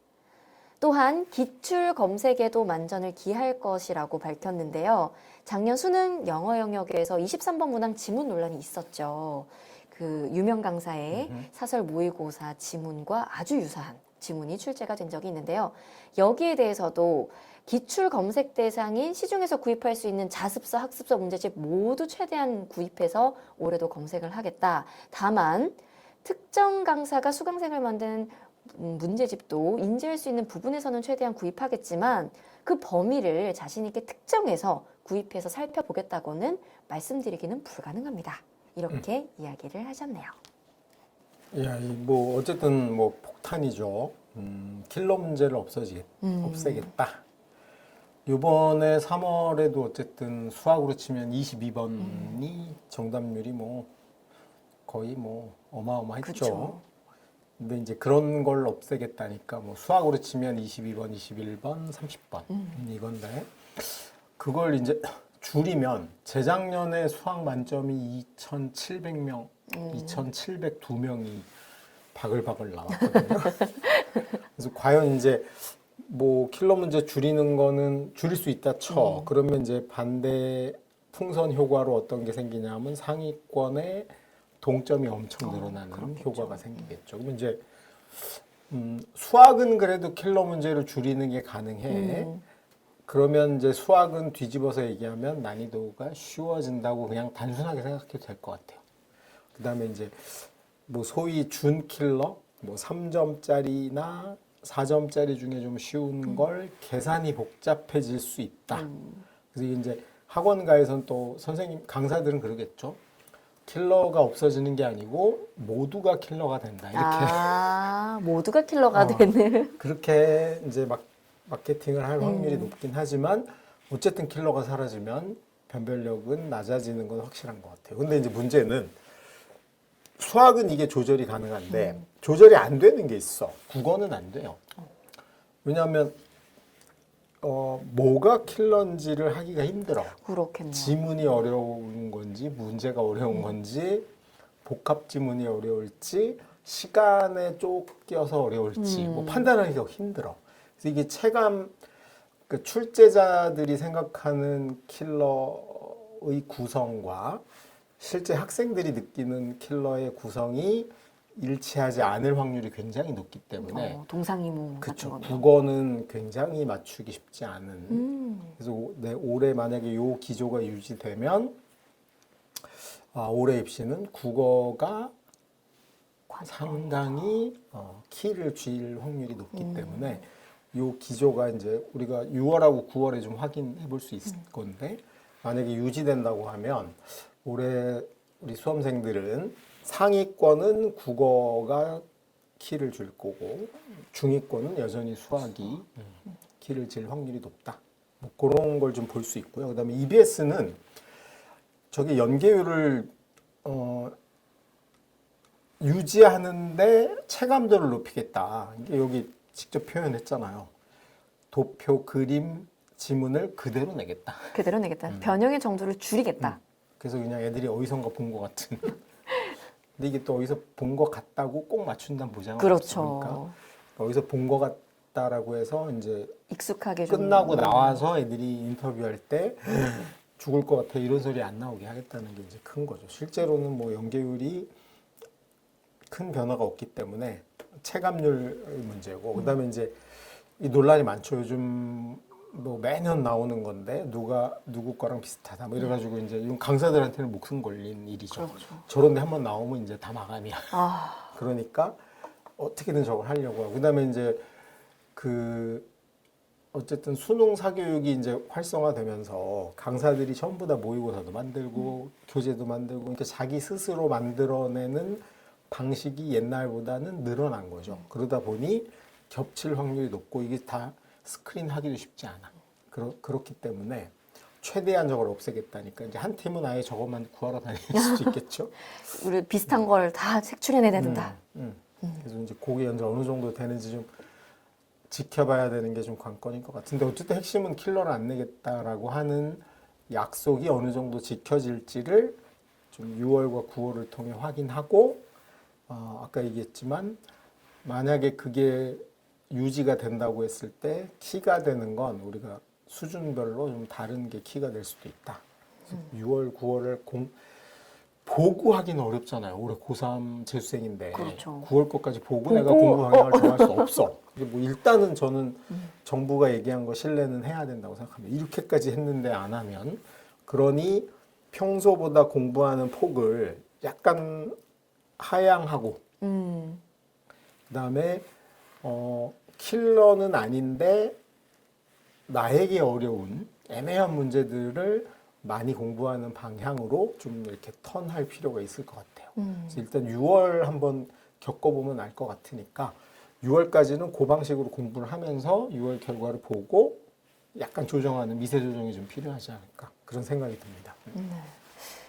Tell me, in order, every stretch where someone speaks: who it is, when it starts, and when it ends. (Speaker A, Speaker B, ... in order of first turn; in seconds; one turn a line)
Speaker A: 0.8-40.4
Speaker B: 11.1-11.5
Speaker B: 41.5-47.2
Speaker A: 46.2-46.9
Speaker B: 48.3-53.9
Speaker A: 52.0-52.4
Speaker B: 54.9-56.8
Speaker A: 56.2-56.8
Speaker B: 57.6-71.5
Speaker A: 62.5-62.8
Speaker A: 69.7-70.2
Speaker B: 72.1-73.9
Speaker A: 73.6-74.0
Speaker B: 74.5-84.1
Speaker A: 78.9-79.3
Speaker B: 84.6-87.6
Speaker A: 85.4-86.9
Speaker B: 88.2-92.3
Speaker A: 91.9-92.4
Speaker B: 93.1-98.8
Speaker B: 99.5-108.9
Speaker A: 108.7-109.2
Speaker B: 109.5-113.0
Speaker B: 113.7-117.8
Speaker A: 116.9-119.8
Speaker B: 118.9-129.0
Speaker A: 122.2-122.8
Speaker B: 130.2-134.6
Speaker A: 131.7-132.0
Speaker B: 135.7-136.2
Speaker B: 137.4-140.2
Speaker A: 140.1-141.0
Speaker B: 140.7-144.1
Speaker B: 144.6-151.7
Speaker A: 148.8-149.5
Speaker B: 152.5-157.4
Speaker B: 158.0-164.0
Speaker A: 163.6-165.5
Speaker B: 164.8-171.6
Speaker A: 167.9-168.6
Speaker B: 173.1-175.1
Speaker A: 176.3-177.3
Speaker B: 176.4-192.1
Speaker A: 179.5-180.2
Speaker B: 192.6-200.8
Speaker B: 201.9-203.1
Speaker B: 203.6-204.2
Speaker B: 205.8-210.7
Speaker B: 211.5-215.4
Speaker A: 214.5-216.6
Speaker B: 216.4-219.0
Speaker B: 220.0-226.4
Speaker A: 222.6-223.6
Speaker A: 226.5-228.0
Speaker B: 227.1-234.7
Speaker B: 236.1-252.0
Speaker A: 248.3-248.9
Speaker A: 250.7-251.3
Speaker B: 252.6-254.5
Speaker B: 255.2-255.9
Speaker B: 256.7-278.7
Speaker A: 277.9-278.4
Speaker A: 279.1-281.4
Speaker B: 280.9-284.1
Speaker B: 285.1-292.4
Speaker B: 292.9-295.3
Speaker B: 295.9-297.2
Speaker B: 297.8-307.4
Speaker B: 308.2-324.6
Speaker A: 311.1-311.7
Speaker A: 312.5-314.0
Speaker B: 325.2-326.0
Speaker A: 326.2-326.8
Speaker B: 327.7-328.3
Speaker B: 328.8-331.2
Speaker B: 332.3-351.1
Speaker A: 339.4-339.8
Speaker A: 351.1-351.6